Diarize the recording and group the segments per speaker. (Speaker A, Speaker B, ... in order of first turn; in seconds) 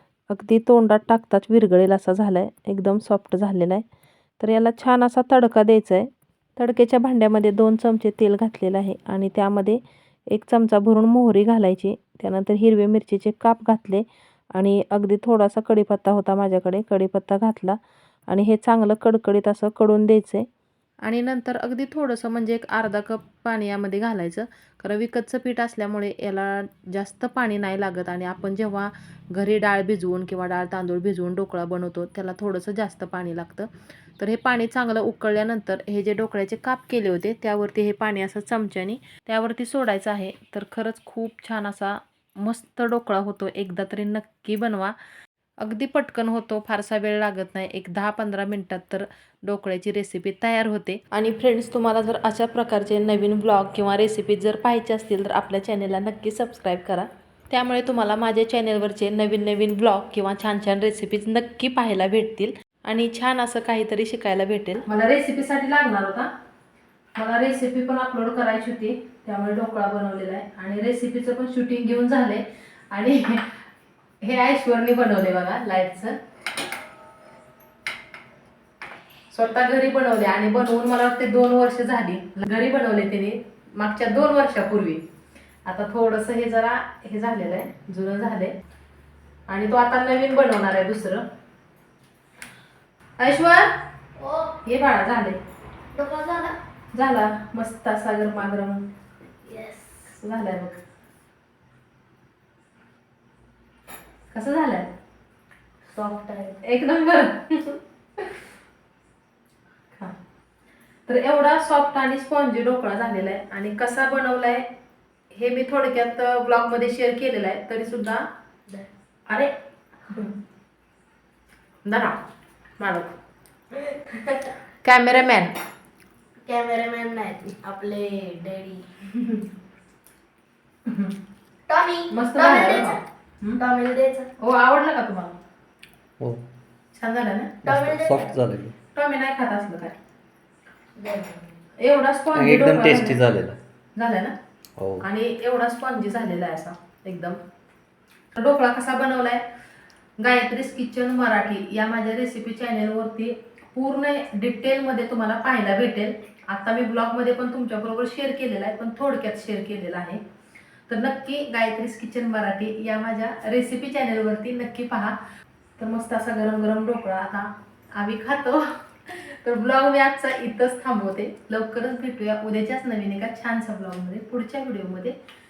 Speaker A: 0.3-3.8, 4.4-20.5, 21.0-45.0, 45.6-66.3, 67.2-73.6, 74.2-76.2, 79.3-85.0, 85.7-88.5, 89.5-91.2, 93.2-93.7, 94.6-95.4, 96.9-98.8, 100.1-100.8, 104.3-104.9, 106.6-108.3, 111.1-114.7, 115.3-118.3, 119.3-119.5, 120.1-120.4, 121.8-122.2, 122.8-123.1, 124.8-125.5, 130.8-131.1, 132.1-133.6, 134.4-135.4, 136.9-137.6, 138.9-139.9, 141.8-143.3, 143.9-144.3, 145.0-147.4, 148.3-149.4, 150.2-160.2, 160.9-165.2, 165.8-175.2
Speaker B: 94.2-94.6, 95.9-96.6, 99.5-100.0, 105.9-106.6, 123.7-124.5, 126.4-128.9, 131.7-133.0, 133.6-134.3, 137.6-138.4, 141.0-141.5
Speaker C: 137.6-138.7, 142.3-143.6, 144.8-145.0